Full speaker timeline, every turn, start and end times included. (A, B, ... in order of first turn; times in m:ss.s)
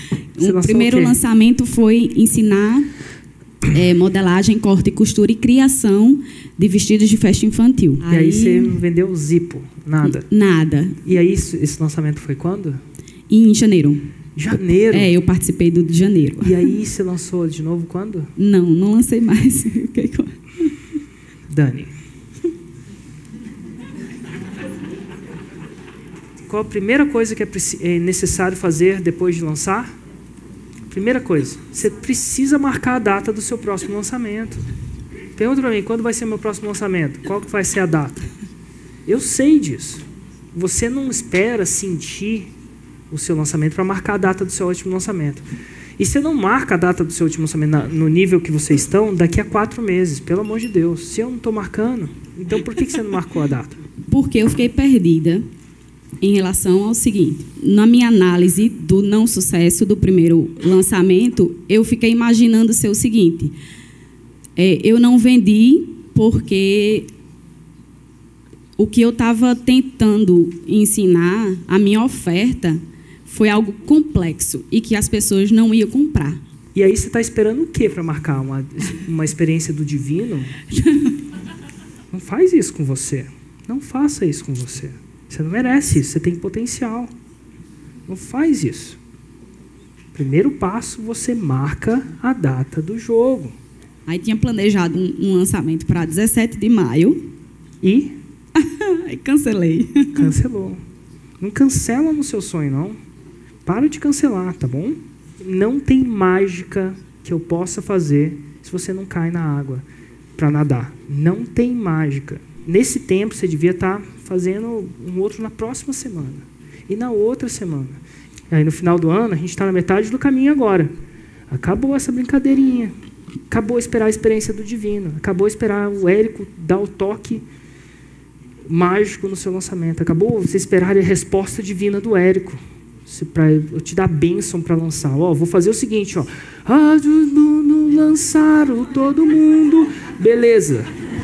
0:00.4-0:02.9 A
0:00.4-0:01.2 B
0:03.7-0:08.8 A
0:08.1-0:10.3 B
0:10.0-0:11.0 A
0:11.0-0:12.8 B
0:13.3-0:14.0 A
0:14.4-0:15.1 B
0:14.9-0:16.7 A
0:16.4-0:18.3 B
0:18.4-0:20.8 A
0:21.5-0:21.9 B
0:26.5-0:30.0 B
0:30.9-0:34.6 B
0:35.4-0:38.3 B
0:39.0-0:42.5 B
0:43.1-0:45.4 B
0:46.0-0:53.8 B
0:54.1-0:55.4 A
0:56.2-1:03.6 A
1:04.6-1:07.1 A
1:08.8-1:16.4 A
1:16.7-1:20.5 B
1:20.7-1:21.2 A
1:22.1-1:27.1 B
1:28.1-1:29.0 B
1:30.1-1:33.5 B
1:34.1-1:37.3 A
1:37.8-1:38.1 B
1:38.5-1:40.3 A
1:40.1-1:40.8 B
1:41.4-1:43.0 B
1:43.6-1:49.8 B
1:50.4-2:00.9 B
2:01.5-2:02.9 B
2:03.5-2:07.4 B
2:08.6-2:20.8 B